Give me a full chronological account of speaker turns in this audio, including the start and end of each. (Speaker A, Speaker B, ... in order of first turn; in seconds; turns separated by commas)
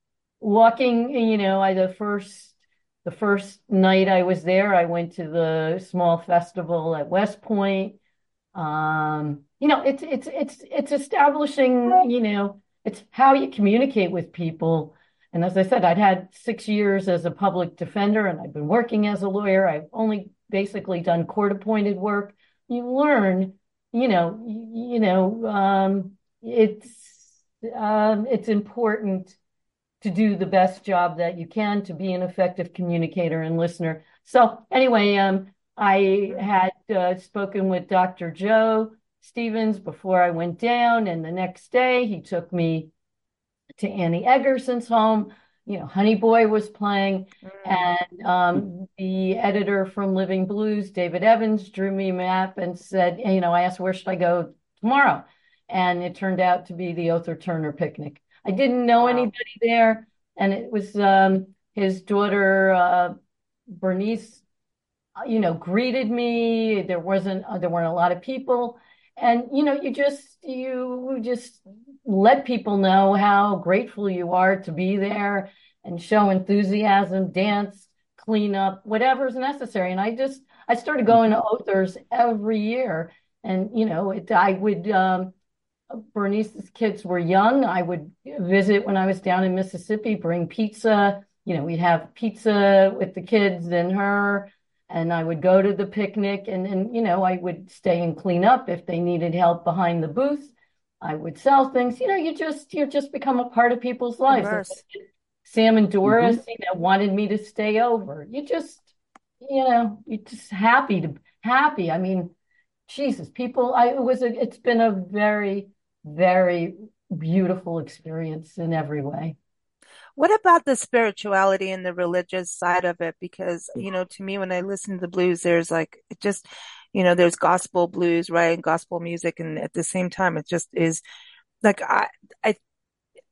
Speaker A: 0.4-8.0, Speaker A: 8.5-29.4, Speaker A: 30.0-42.9, Speaker A: 43.8-63.1, Speaker B: 59.0-59.3, Speaker A: 63.7-64.4, Speaker A: 65.2-85.3, Speaker A: 85.9-112.3, Speaker B: 104.3-104.8, Speaker A: 112.9-119.3, Speaker B: 120.2-131.0, Speaker B: 131.6-132.6